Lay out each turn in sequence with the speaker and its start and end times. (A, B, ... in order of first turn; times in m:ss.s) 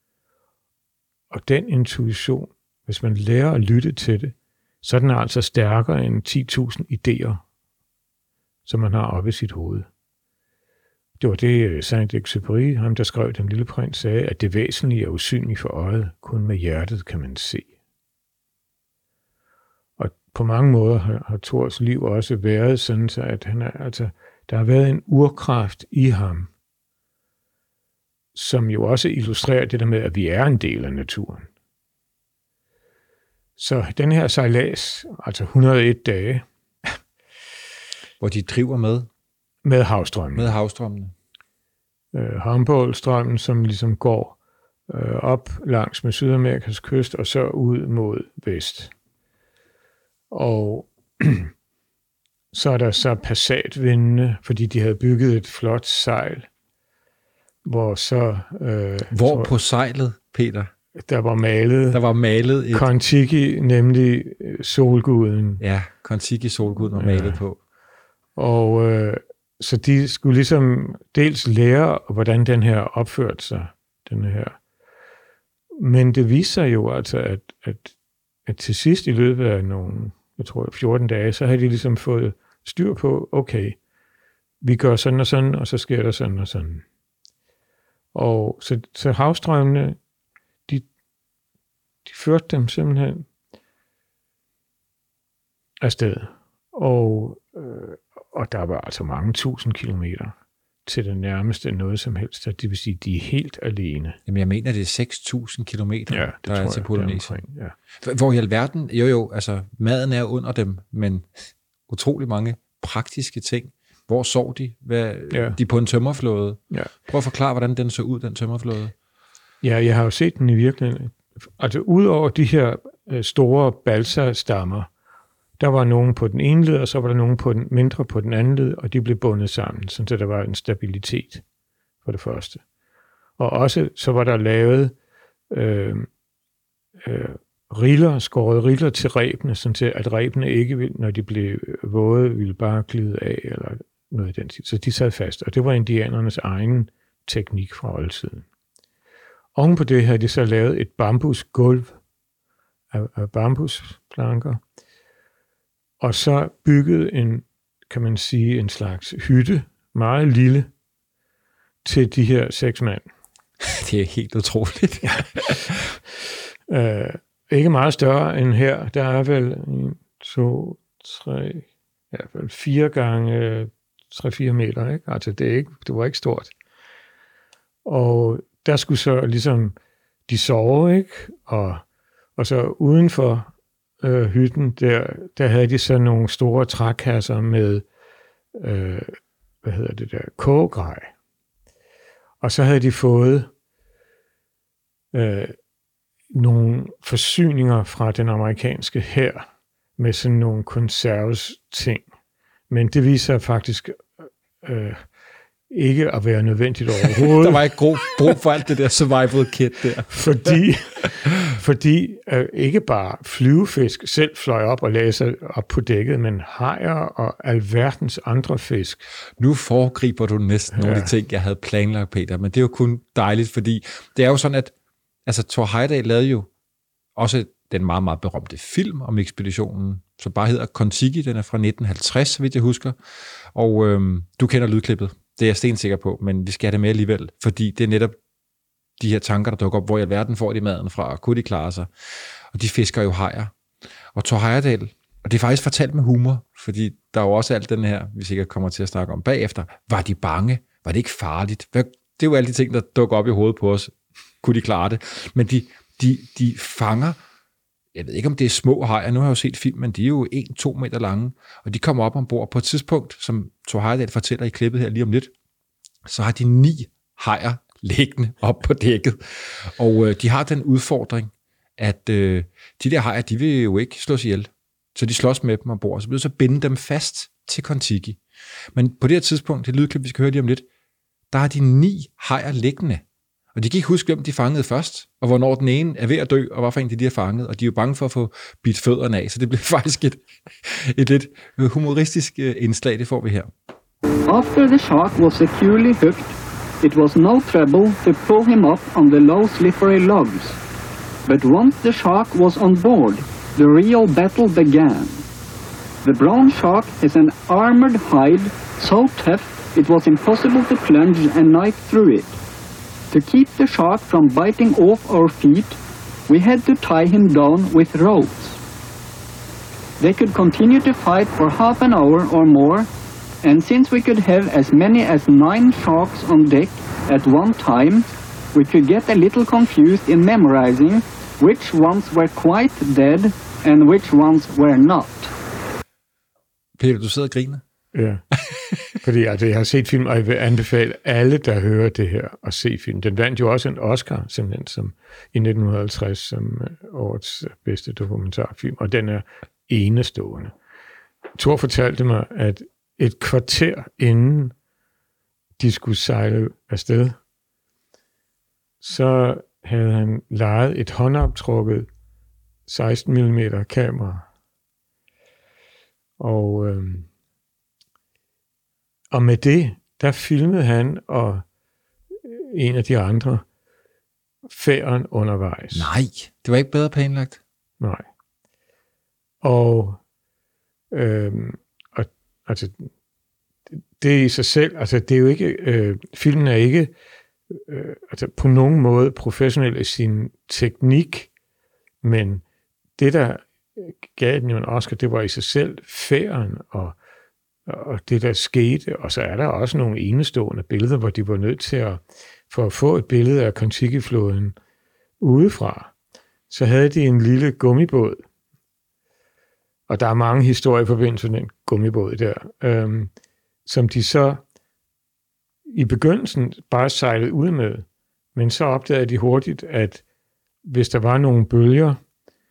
0:01.3-0:07.4 A
0:08.7-0:09.9 A
0:11.2-0:17.7 A
0:20.0-0:26.5 A
0:28.4-0:31.5 A
0:33.6-0:36.5 A
0:38.2-0:39.1 B
0:39.6-0:40.6 A
0:40.4-0:41.1 B
0:42.1-0:44.4 A
0:44.9-0:48.9 A
0:50.3-0:51.5 A
0:52.5-0:56.5 A
0:57.6-0:59.5 A
0:59.1-1:00.7 B
1:01.0-1:02.0 A
1:01.9-1:02.9 B
1:02.7-1:05.6 A
1:05.6-1:07.6 B
1:07.0-1:07.4 A
1:08.4-1:14.6 A
1:15.8-1:18.0 A
1:18.5-1:23.8 A
1:24.6-1:26.8 A
1:28.1-1:30.0 A
1:32.0-1:33.3 A
1:35.8-1:40.4 A
1:40.9-1:44.2 A
1:44.3-1:47.4 B
1:46.1-1:47.8 A
1:48.0-1:51.3 B
1:51.9-1:58.9 B
1:55.3-1:55.6 A
1:59.6-2:04.9 A
2:05.6-2:11.4 A
2:12.0-2:12.6 A
2:13.4-2:15.0 A
2:15.5-2:16.1 A
2:17.0-2:28.5 A
2:29.6-2:32.0 A
2:32.9-2:34.6 A
2:36.0-2:40.7 A
2:41.8-2:43.1 A
2:43.6-2:45.8 B
2:45.0-2:45.3 A
2:46.7-2:56.5 A
2:57.8-2:59.8 A
3:00.3-3:01.8 A
3:02.4-3:07.8 A
3:08.6-3:11.1 A
3:12.4-3:13.5 A
3:15.1-3:15.5 A
3:16.3-3:22.1 A
3:22.7-3:25.1 A
3:25.7-3:28.3 A
3:27.2-3:30.6 B
3:30.1-3:39.1 A
3:39.4-3:44.7 B
3:40.7-3:41.1 A
3:45.3-3:46.5 B
3:47.2-3:53.0 B
3:53.5-3:58.2 B
3:59.0-4:03.5 B
4:04.2-4:17.2 B
4:17.9-4:25.3 B
4:26.0-4:38.2 B
4:38.7-4:40.6 B
4:41.3-4:43.0 B
4:43.6-4:53.5 B
4:54.3-5:00.6 C
5:01.3-5:05.2 C
5:06.0-5:12.4 C
5:13.1-5:18.6 C
5:20.0-5:22.9 C
5:23.4-5:35.3 C
5:36.8-5:37.6 B
5:37.9-5:38.2 A
5:38.5-5:39.0 B
5:39.0-5:50.6 A
5:51.4-5:54.6 A
5:55.6-5:57.2 A
5:58.8-6:01.9 A
6:02.7-6:04.3 A
6:06.2-6:07.1 A
6:09.1-6:11.4 A
6:12.2-6:13.4 A
6:14.5-6:15.9 A
6:15.7-6:17.4 B
6:19.4-6:20.0 A
6:20.9-6:22.9 A
6:23.7-6:26.9 A
6:27.5-6:31.3 A
6:32.0-6:32.4 A
6:33.0-6:37.0 A
6:37.7-6:44.6 A
6:45.2-6:45.9 A
6:46.5-6:48.2 A
6:49.9-6:53.1 A
6:53.6-6:54.4 A
6:55.7-7:00.0 A
7:00.6-7:02.0 A